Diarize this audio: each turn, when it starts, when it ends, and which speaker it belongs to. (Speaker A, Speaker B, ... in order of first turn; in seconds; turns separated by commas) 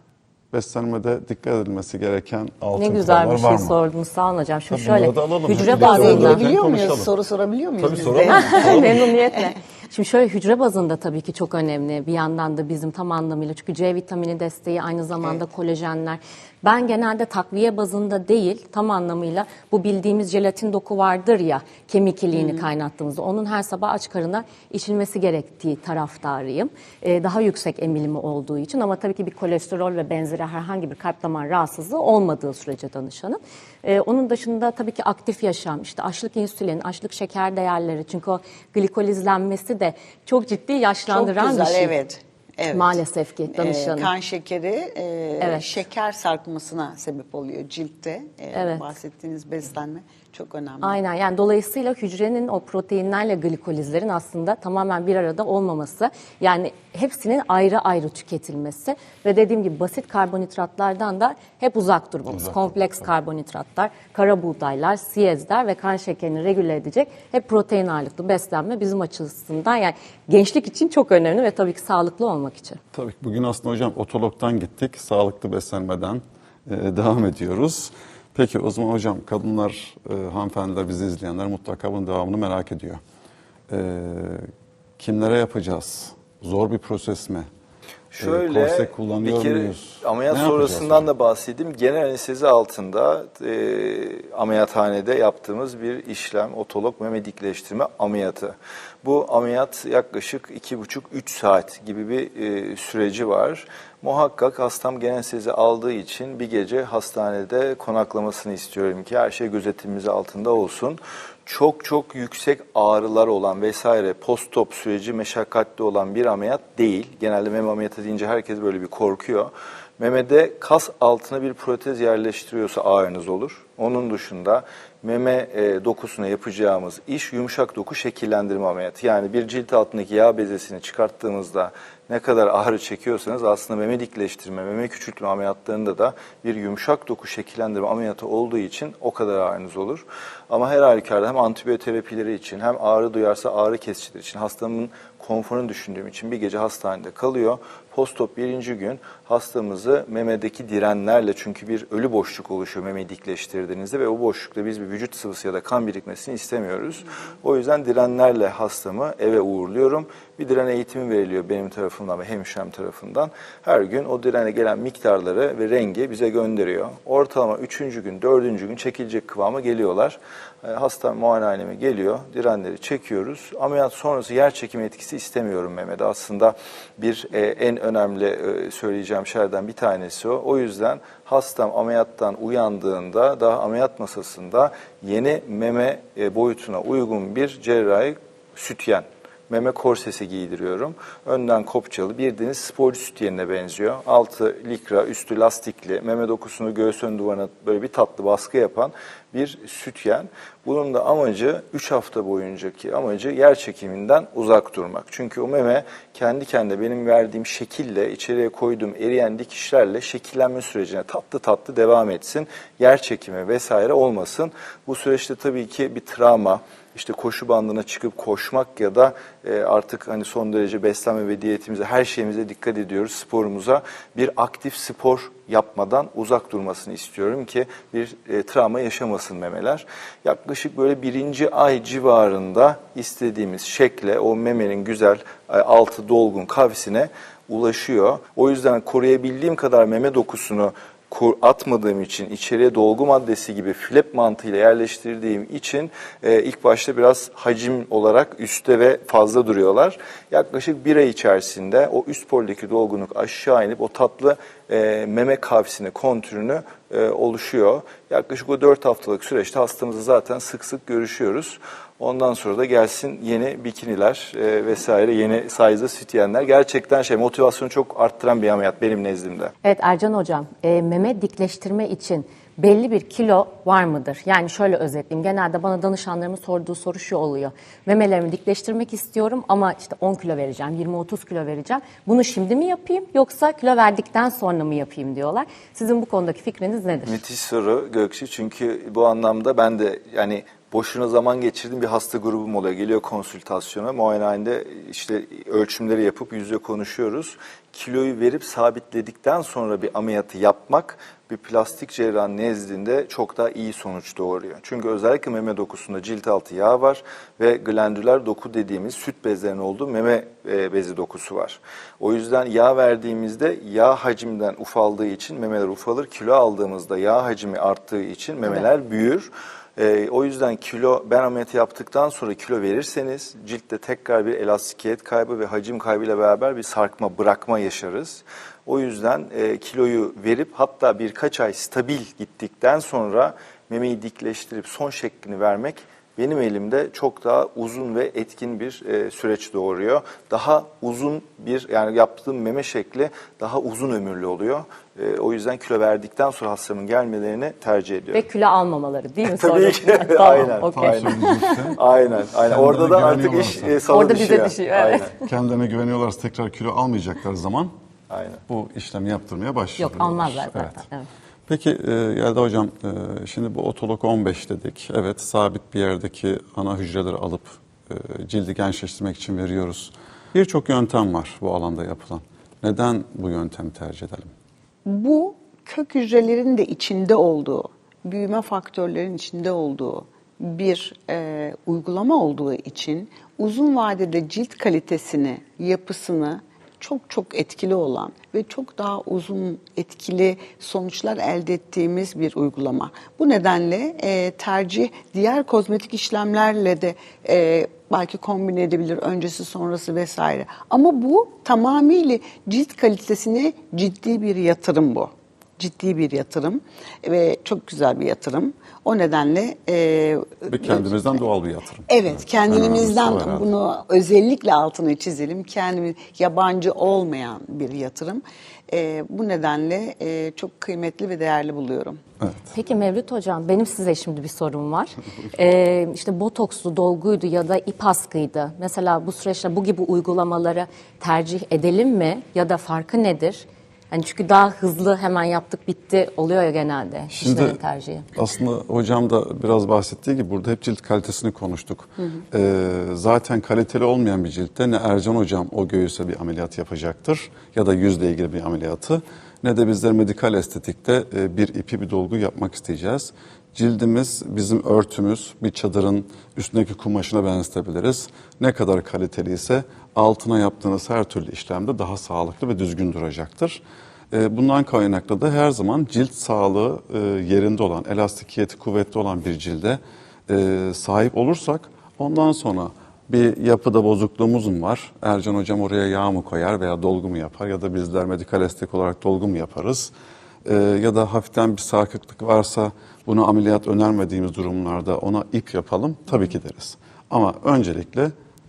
Speaker A: 0.5-3.8, Speaker B: 2.8-6.4, Speaker A: 4.7-7.1, Speaker C: 5.6-9.4, Speaker A: 7.8-9.0, Speaker B: 8.2-41.9, Speaker C: 22.3-22.6, Speaker C: 41.1-43.0, Speaker B: 42.7-44.1, Speaker C: 43.5-51.0, Speaker B: 45.4-45.7, Speaker B: 48.5-48.9, Speaker B: 50.8-72.8, Speaker A: 62.3-63.1, Speaker A: 72.9-83.0, Speaker A: 83.7-87.5, Speaker D: 88.1-269.5, Speaker A: 88.2-91.1, Speaker B: 269.6-287.2, Speaker D: 287.1-348.2, Speaker B: 348.1-351.6, Speaker D: 349.3-355.1, Speaker A: 350.4-351.8, Speaker A: 352.5-353.7, Speaker B: 353.9-355.2, Speaker A: 355.2-357.7, Speaker D: 358.1-358.4, Speaker A: 358.5-360.8, Speaker B: 359.8-361.1, Speaker A: 361.5-374.3, Speaker C: 374.8-410.9, Speaker A: 410.5-413.5, Speaker C: 411.9-422.0, Speaker A: 422.2-422.5, Speaker B: 422.5-438.1, Speaker A: 437.1-437.6, Speaker A: 438.1-463.6, Speaker A: 464.1-479.9, Speaker A: 480.4-488.1